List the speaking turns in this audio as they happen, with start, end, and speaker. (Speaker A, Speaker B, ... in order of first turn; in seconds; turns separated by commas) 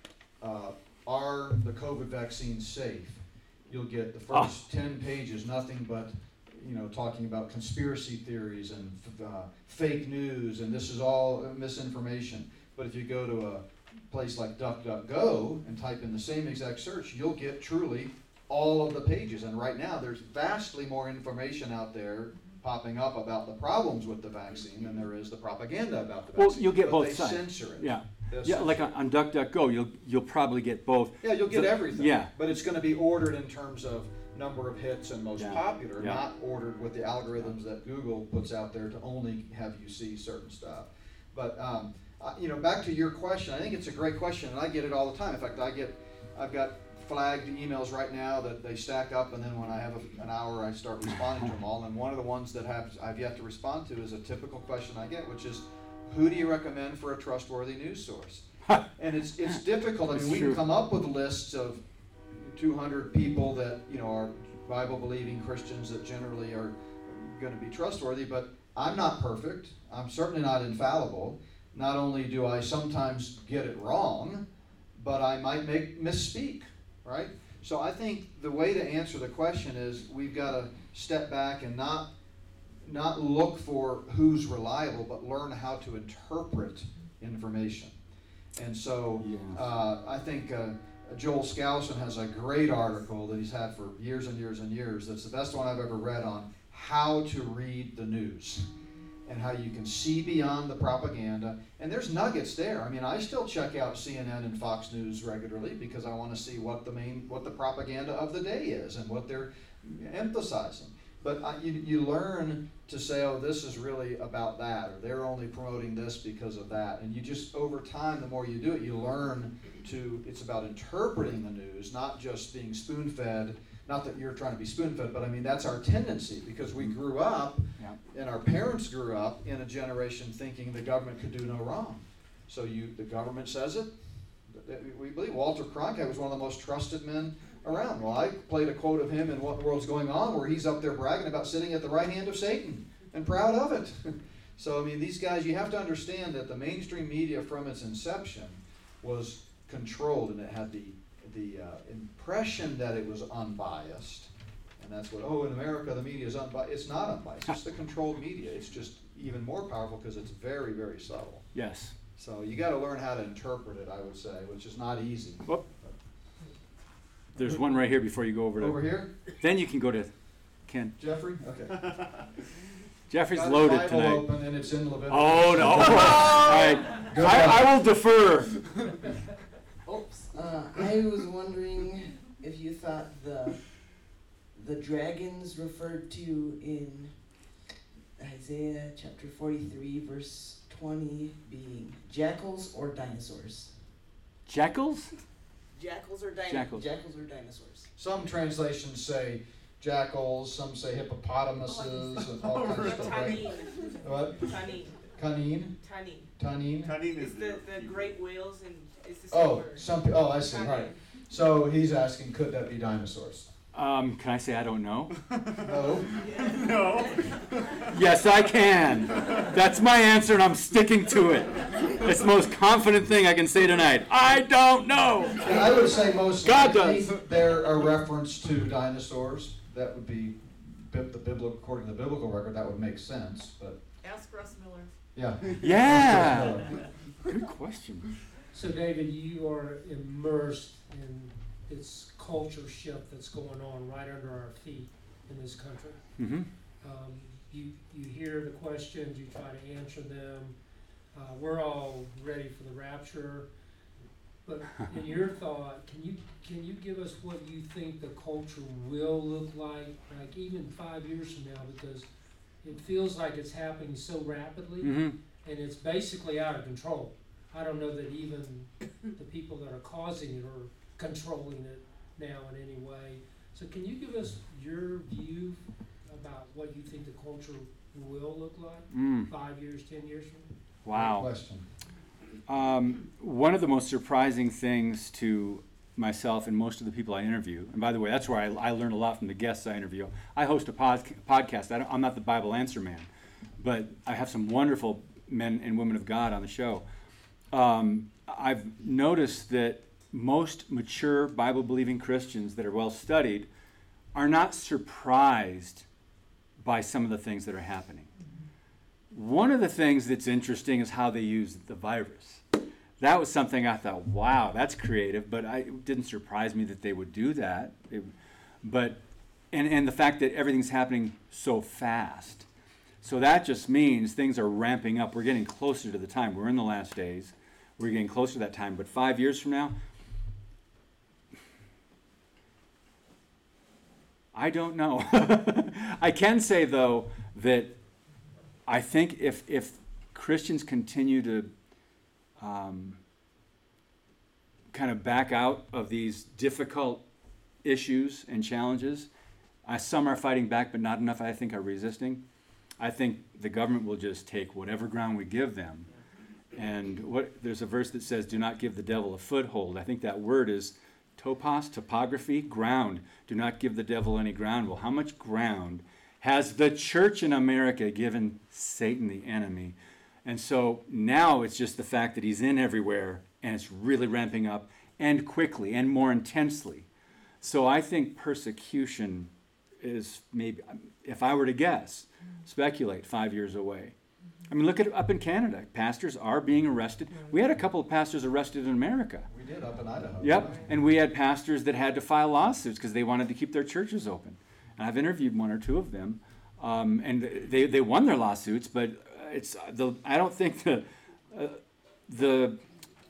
Speaker A: 0.4-28.9, Speaker B: 4.3-4.6, Speaker B: 26.4-32.3, Speaker A: 31.2-82.1, Speaker B: 35.4-36.2, Speaker B: 60.1-60.6, Speaker A: 82.8-88.0, Speaker A: 88.5-98.7, Speaker B: 89.2-89.7, Speaker A: 99.3-161.5, Speaker B: 161.5-161.9, Speaker A: 162.2-165.9, Speaker B: 167.4-170.1, Speaker A: 168.6-169.1, Speaker B: 170.7-171.0, Speaker A: 171.0-172.2, Speaker B: 173.1-174.3, Speaker A: 173.3-177.7, Speaker B: 175.1-178.7, Speaker C: 179.9-187.5, Speaker C: 188.2-193.9, Speaker B: 194.5-195.1, Speaker C: 195.8-197.9, Speaker B: 196.5-196.8, Speaker A: 198.0-205.8, Speaker D: 202.2-203.6, Speaker E: 203.2-203.8, Speaker A: 206.4-207.0, Speaker D: 206.8-208.2, Speaker E: 207.2-209.9, Speaker A: 209.3-213.5, Speaker B: 213.7-215.2, Speaker D: 215.3-217.9, Speaker A: 215.6-216.1, Speaker E: 216.2-217.8, Speaker B: 217.9-227.2, Speaker A: 225.4-233.8, Speaker E: 234.0-234.9, Speaker A: 235.1-236.9, Speaker B: 235.6-238.1, Speaker F: 238.5-250.6, Speaker B: 246.2-246.5, Speaker F: 251.1-253.5, Speaker F: 254.4-262.1, Speaker F: 262.6-280.6, Speaker B: 264.8-265.2, Speaker B: 278.9-279.3, Speaker B: 280.9-281.3, Speaker A: 280.9-281.6, Speaker B: 282.5-293.1, Speaker B: 293.6-296.9, Speaker B: 297.5-303.5, Speaker B: 304.1-305.9, Speaker B: 306.6-308.1, Speaker B: 309.1-312.4, Speaker B: 313.0-319.0, Speaker B: 319.5-322.5, Speaker B: 323.0-329.8, Speaker B: 334.3-337.8, Speaker B: 338.7-341.5, Speaker B: 342.4-343.0, Speaker B: 344.7-347.0, Speaker B: 347.6-349.1, Speaker B: 349.7-352.2, Speaker B: 352.8-355.9, Speaker B: 356.6-376.9, Speaker B: 377.4-383.9, Speaker B: 384.5-389.3, Speaker A: 389.3-390.7, Speaker B: 390.2-402.6